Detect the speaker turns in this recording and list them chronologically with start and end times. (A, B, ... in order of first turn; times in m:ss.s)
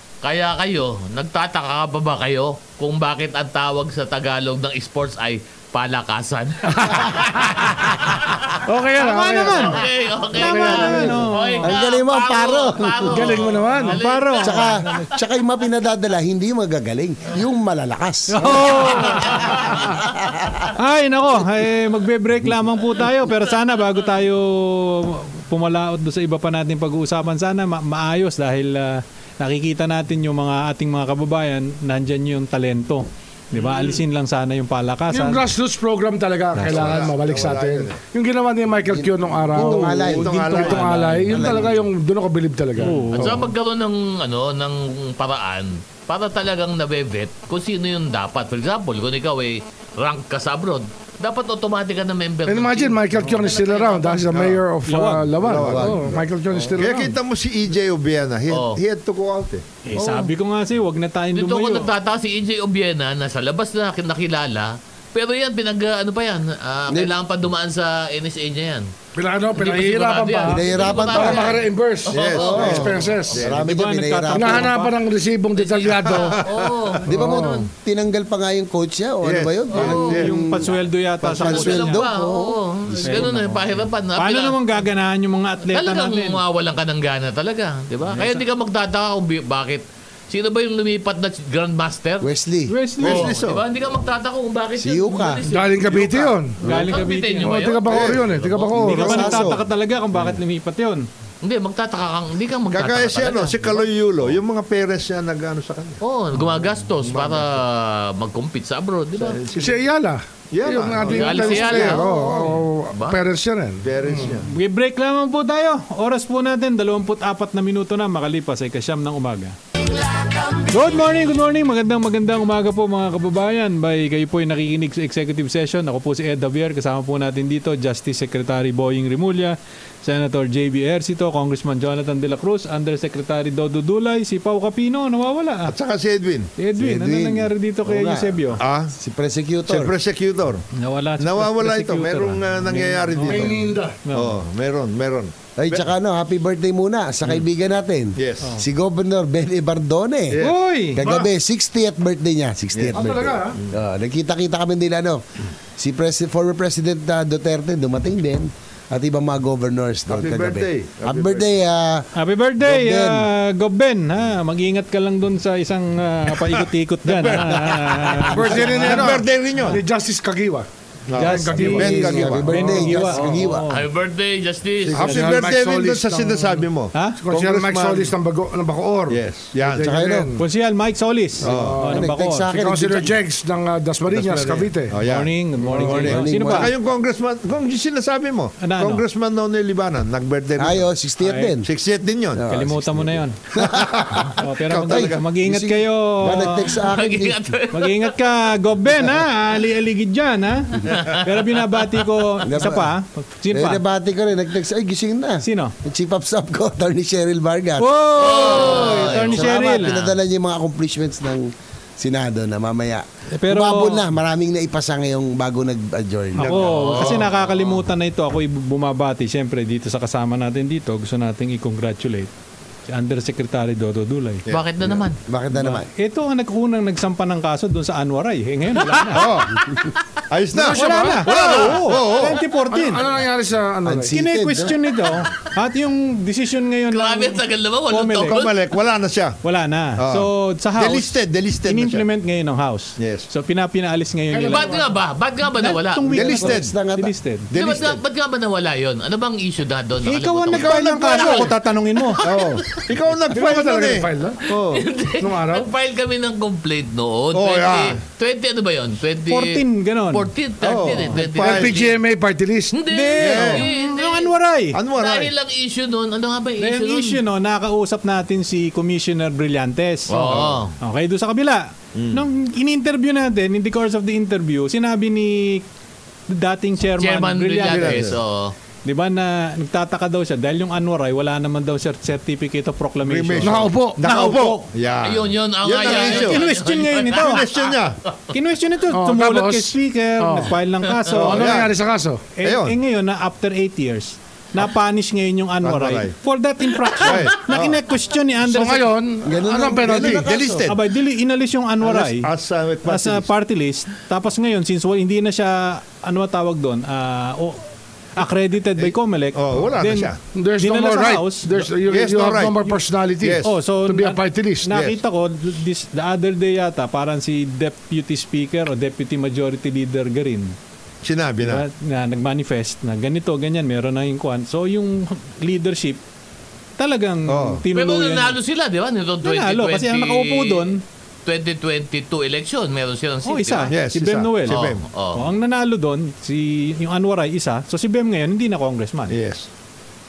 0:00.2-0:08.5 A
0:06.7-0:07.9 B
0:08.6-0:11.2 B
0:09.0-0:11.7 C
0:09.4-0:14.9 A
0:11.6-0:13.5 D
0:13.1-0:14.0 B
0:13.9-0:15.1 C
0:14.4-0:18.9 D
0:18.3-0:19.6 C
0:19.2-0:20.1 A
0:19.8-0:20.6 D
0:20.8-0:35.4 C
0:35.1-0:43.5 B
0:36.5-0:37.0 C
0:36.6-0:38.0 E
0:38.9-0:40.5 D
0:39.6-0:41.7 C
0:40.0-0:41.0 E
0:41.3-0:41.7 D
0:42.8-0:43.5 C
0:43.1-0:54.3 A
0:52.5-0:57.2 B
0:54.3-0:54.6 E
0:54.9-0:55.4 C
0:55.4-0:59.6 E
0:55.6-0:56.0 D
0:58.5-0:58.8 A
0:59.8-1:01.9 C
1:01.3-1:08.9 A
1:06.9-1:07.1 D
1:09.2-1:13.5 B
1:09.5-1:13.4 A
1:10.4-1:11.6 D
1:12.1-1:13.7 E
1:12.4-1:14.7 D
1:13.5-1:15.0 C
1:14.3-1:16.4 B
1:15.6-1:17.7 A
1:15.9-1:17.0 E
1:17.1-1:17.7 B
1:17.1-1:23.2 D
1:19.2-1:20.3 E
1:19.7-1:20.2 A
1:19.9-1:22.0 C
1:21.4-1:24.6 A
1:23.0-1:26.4 C
1:25.7-1:32.3 A
1:28.2-1:28.4 C
1:32.2-1:32.7 D
1:32.7-1:33.3 C
1:33.0-1:33.6 E
1:33.0-1:38.5 A
1:34.8-1:35.4 D
1:35.4-1:36.6 B
1:35.9-1:36.3 E
1:36.6-1:37.8 C
1:37.4-1:39.3 B
1:37.8-1:39.4 E
1:38.7-1:41.1 C
1:38.9-1:39.6 D
1:41.4-1:43.8 A
1:42.7-1:46.0 E
1:46.0-1:49.4 A
1:47.0-1:47.6 E
1:49.2-1:49.8 E
1:49.5-1:54.4 B
1:50.5-1:52.5 E
1:51.0-1:53.2 A
1:53.8-1:54.5 E
1:54.4-1:59.6 C
2:00.4-2:15.8 C
2:15.7-2:16.5 E
2:16.6-2:18.6 C
2:16.8-2:18.4 D
2:18.6-2:18.9 E
2:19.0-2:19.9 D
2:19.7-2:20.6 E
2:20.8-2:24.4 C
2:21.2-2:25.9 E
2:23.3-2:24.0 B
2:25.6-2:30.4 D
2:28.2-2:28.5 E
2:30.3-2:31.1 E
2:30.4-2:31.1 C
2:30.9-2:35.2 D
2:32.7-2:33.7 E
2:32.9-2:33.6 B
2:35.8-2:42.1 D
2:40.1-2:41.5 E
2:42.1-2:49.1 C
2:42.6-2:43.2 D
2:46.4-2:49.8 E
2:48.3-2:52.5 B
2:51.1-2:53.2 E
2:51.2-2:53.9 C
2:51.6-2:53.7 D
2:53.7-2:55.2 A
2:54.9-2:58.1 E
2:54.9-2:56.6 B
2:56.9-2:57.2 C
2:57.2-3:00.4 B
2:59.1-2:59.9 E
2:59.8-3:00.3 D
3:00.4-3:02.5 C
3:01.4-3:01.8 E
3:01.4-3:05.0 B
3:01.5-3:03.1 D
3:04.1-3:10.8 E
3:05.0-3:06.7 C
3:05.8-3:06.7 D
3:08.6-3:09.0 C
3:10.6-3:11.7 D
3:11.2-3:11.5 C
3:11.6-3:12.5 E
3:12.3-3:17.4 D
3:12.5-3:13.4 C
3:13.5-3:15.2 E
3:14.3-3:16.8 C
3:16.7-3:18.1 A
3:17.7-3:23.8 C
3:20.9-3:21.5 A
3:22.4-3:22.9 D
3:23.5-3:36.7 D
3:25.4-3:25.8 C
3:27.8-3:29.9 C
3:28.2-3:30.1 A
3:33.3-3:34.0 C
3:36.4-3:42.3 C
3:36.4-3:37.2 E
3:36.6-3:37.5 A
3:42.9-3:44.4 C
3:44.5-3:45.2 A
3:45.2-3:45.9 D
3:45.5-3:49.4 C
3:48.8-3:49.8 A
3:49.1-3:49.6 E
3:50.3-3:52.4 E
3:50.5-3:51.8 B
3:50.6-3:53.0 C
3:52.7-3:54.1 B
3:53.8-3:55.0 D
3:54.1-3:58.4 C
3:56.9-3:58.6 A
3:58.3-3:59.4 E
3:59.4-4:01.1 C
4:00.0-4:02.0 E
4:01.6-4:04.8 C
4:03.0-4:03.3 E
4:04.3-4:04.9 B
4:04.4-4:06.2 A
4:05.5-4:07.5 C
4:06.1-4:06.7 E
4:06.1-4:07.1 D
4:07.5-4:08.0 E
4:07.5-4:12.8 A
4:10.0-4:12.2 C
4:10.5-4:11.5 E
4:12.2-4:14.8 E
4:13.3-4:14.4 B
4:14.5-4:22.0 A
4:15.2-4:15.7 B
4:17.3-4:18.0 E
4:19.3-4:20.3 C
4:20.6-4:21.8 E
4:21.4-4:22.8 B
4:22.7-4:24.3 A
4:22.9-4:24.8 C
4:23.2-4:23.6 E
4:24.7-4:25.3 E
4:24.9-4:27.2 A
4:26.6-4:35.6 C
4:30.1-4:30.7 A
4:30.2-4:30.6 E
4:31.9-4:32.2 E
4:36.3-4:38.1 C
4:37.0-4:38.5 A
4:37.7-4:38.2 E
4:38.8-4:43.7 C
4:43.0-4:46.4 E
4:43.4-4:44.6 B
4:45.0-4:48.2 A
4:45.8-4:47.5 C
4:47.1-4:48.0 E
4:48.3-4:51.7 C
4:48.9-4:50.5 B
4:51.1-4:51.8 E
4:51.1-4:52.3 B
4:52.4-4:58.9 C
4:52.4-4:52.8 E
4:55.6-4:56.1 E
4:57.0-4:57.8 E
4:58.4-5:00.3 B
4:59.2-5:00.7 D
4:59.8-5:00.8 E
5:00.6-5:02.3 C
5:01.8-5:03.2 E
5:02.8-5:07.6 C
5:08.2-5:11.6 C
5:08.8-5:10.2 E
5:10.3-5:14.7 B
5:11.8-5:12.6 E
5:13.2-5:13.6 E
5:13.4-5:20.5 C
5:14.7-5:15.0 E
5:21.0-5:21.6 E
5:21.4-5:26.0 C
5:26.8-5:28.4 C
5:27.3-5:27.6 E
5:27.7-5:30.7 A
5:29.2-5:30.8 C
5:31.2-5:33.8 A
5:33.2-5:39.2 C
5:33.7-5:34.8 E
5:34.5-5:35.2 A
5:39.1-5:39.5 E